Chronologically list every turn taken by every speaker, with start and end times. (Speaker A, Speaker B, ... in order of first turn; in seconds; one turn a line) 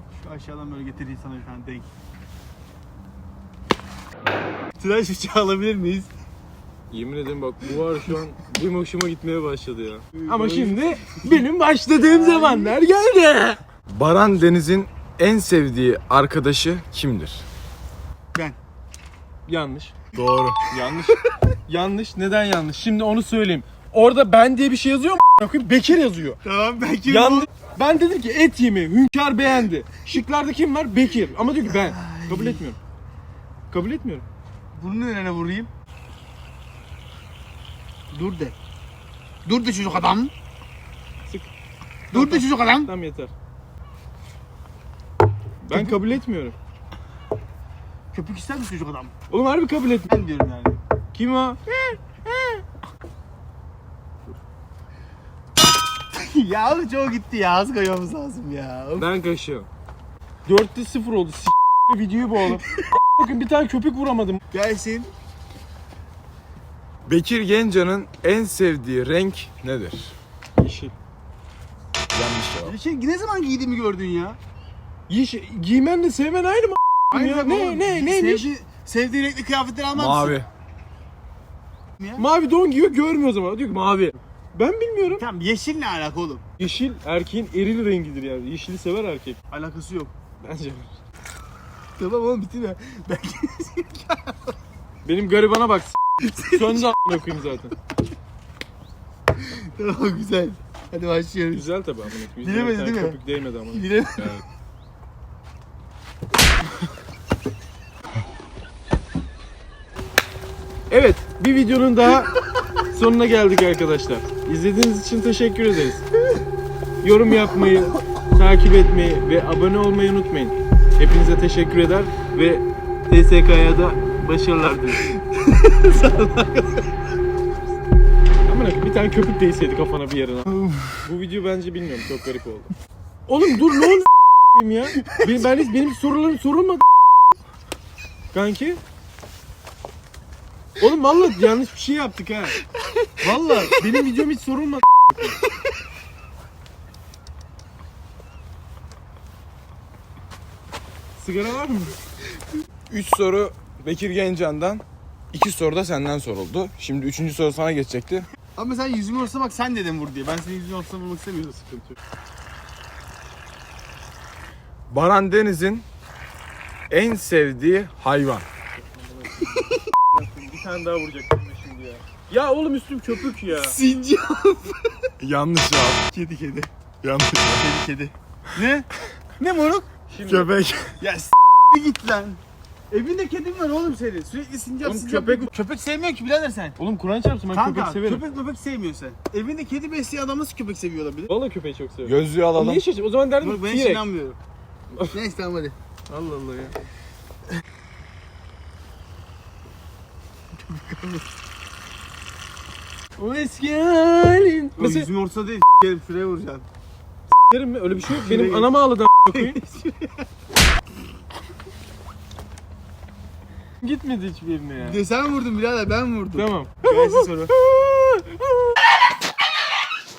Speaker A: 0.1-1.9
Speaker A: 4.8-6.1
Speaker B: 6.9-13.6
Speaker A: 10.2-12.7
Speaker C: 13.9-17.4
Speaker B: 19.5-19.9
Speaker C: 20.1-20.6
Speaker B: 20.7-26.4
Speaker A: 26.4-27.5
Speaker B: 27.1-32.8
Speaker A: 31.6-32.6
Speaker B: 33.7-34.2
Speaker A: 34.7-35.7
Speaker A: 38.1-38.5
Speaker A: 39.4-40.3
Speaker B: 41.2-41.5
Speaker A: 42.1-42.9
Speaker B: 42.1-43.3
Speaker B: 45.6-46.5
Speaker A: 45.7-46.1
Speaker A: 48.1-49.1
Speaker B: 49.3-50.1
Speaker A: 50.1-50.8
Speaker B: 51.1-51.6
Speaker A: 56.1-59.1
Speaker B: 59.0-59.7
Speaker B: 60.5-64.4
Speaker A: 64.5-65.1
Speaker C: 67.0-70.2
Speaker B: 70.6-70.9
Speaker C: 72.1-72.7
Speaker A: 72.6-74.4
Speaker B: 75.1-78.5
Speaker A: 77.1-80.4
Speaker C: 79.9-80.5
Speaker A: 82.0-82.2
Speaker B: 82.2-85.2
Speaker A: 85.1-86.4
Speaker B: 86.6-89.4
Speaker A: 89.5-90.1
Speaker B: 90.4-90.9
Speaker A: 92.0-94.5
Speaker B: 95.0-97.7
Speaker A: 96.2-96.9
Speaker A: 99.4-101.7
Speaker B: 101.5-103.9
Speaker A: 102.4-104.4
Speaker B: 110.9-112.3
Speaker B: 112.9-116.1
Speaker B: 117.0-125.1
Speaker A: 125.0-126.9
Speaker B: 128.4-132.7
Speaker A: 130.6-131.0
Speaker B: 133.3-136.8
Speaker B: 138.3-138.8
Speaker B: 140.8-142.6
Speaker A: 143.2-143.8
Speaker B: 143.2-145.3
Speaker B: 151.2-151.9
Speaker C: 152.9-158.3
Speaker A: 158.6-161.6
Speaker B: 161.7-161.9
Speaker C: 164.9-165.8
Speaker C: 166.9-168.4
Speaker B: 168.8-173.8
Speaker A: 173.5-174.8
Speaker C: 175.2-176.0
Speaker A: 176.1-176.7
Speaker C: 177.0-177.7
Speaker A: 177.6-179.9
Speaker B: 180.1-180.5
Speaker C: 180.2-181.0
Speaker A: 181.0-182.4
Speaker A: 182.9-186.8
Speaker B: 184.8-185.5
Speaker B: 186.8-188.2
Speaker A: 187.5-191.3
Speaker B: 191.3-194.0
Speaker C: 192.0-192.8
Speaker A: 193.4-194.4
Speaker A: 195.1-195.7
Speaker B: 196.1-196.8
Speaker A: 200.7-201.2
Speaker B: 203.2-205.1
Speaker A: 204.8-206.7
Speaker B: 207.3-209.6
Speaker A: 208.0-208.7
Speaker A: 209.3-210.2
Speaker B: 213.8-215.0
Speaker A: 214.8-217.5
Speaker B: 216.3-218.8